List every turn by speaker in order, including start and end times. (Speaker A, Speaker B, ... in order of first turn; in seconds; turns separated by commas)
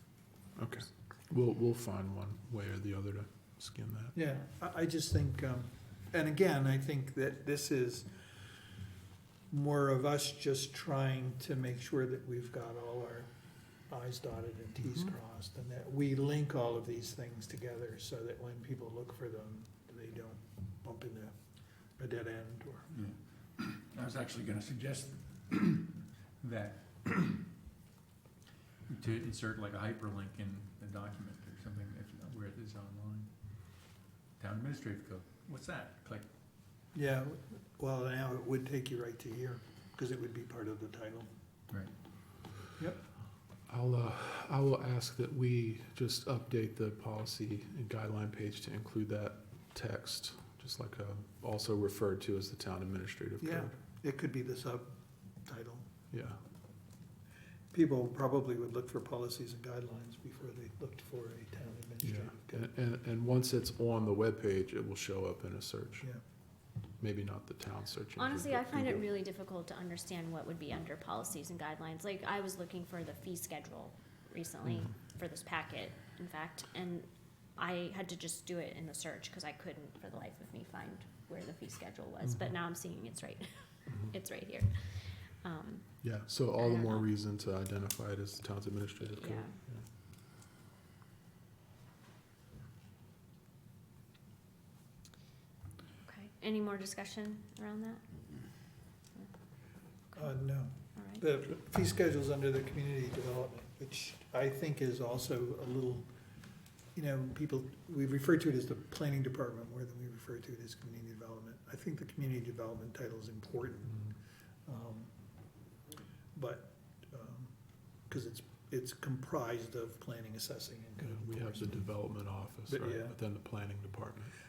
Speaker A: 0.6-4.2, Speaker B: 4.1-8.2, Speaker B: 9.5-13.3, Speaker B: 13.9-21.3, Speaker B: 22.0-22.9, Speaker C: 22.9-27.5, Speaker C: 28.9-33.3, Speaker C: 34.4-36.3, Speaker B: 36.9-41.3, Speaker A: 43.7-53.7, Speaker B: 53.4-54.9, Speaker B: 55.4-55.9, Speaker A: 56.1-56.4, Speaker B: 57.7-62.7, Speaker A: 62.0-66.1, Speaker A: 67.0-69.0, Speaker D: 68.2-86.0, Speaker A: 86.0-89.8, Speaker D: 86.6-87.1, Speaker D: 89.0-89.5, Speaker D: 96.0-98.0, Speaker B: 100.1-106.1, Speaker D: 101.0-101.2, Speaker B: 106.9-114.1, Speaker B: 114.7-115.1, Speaker B: 116.3-117.5, Speaker B: 118.1-121.8, Speaker A: 121.0-124.3, Speaker B: 122.7-123.1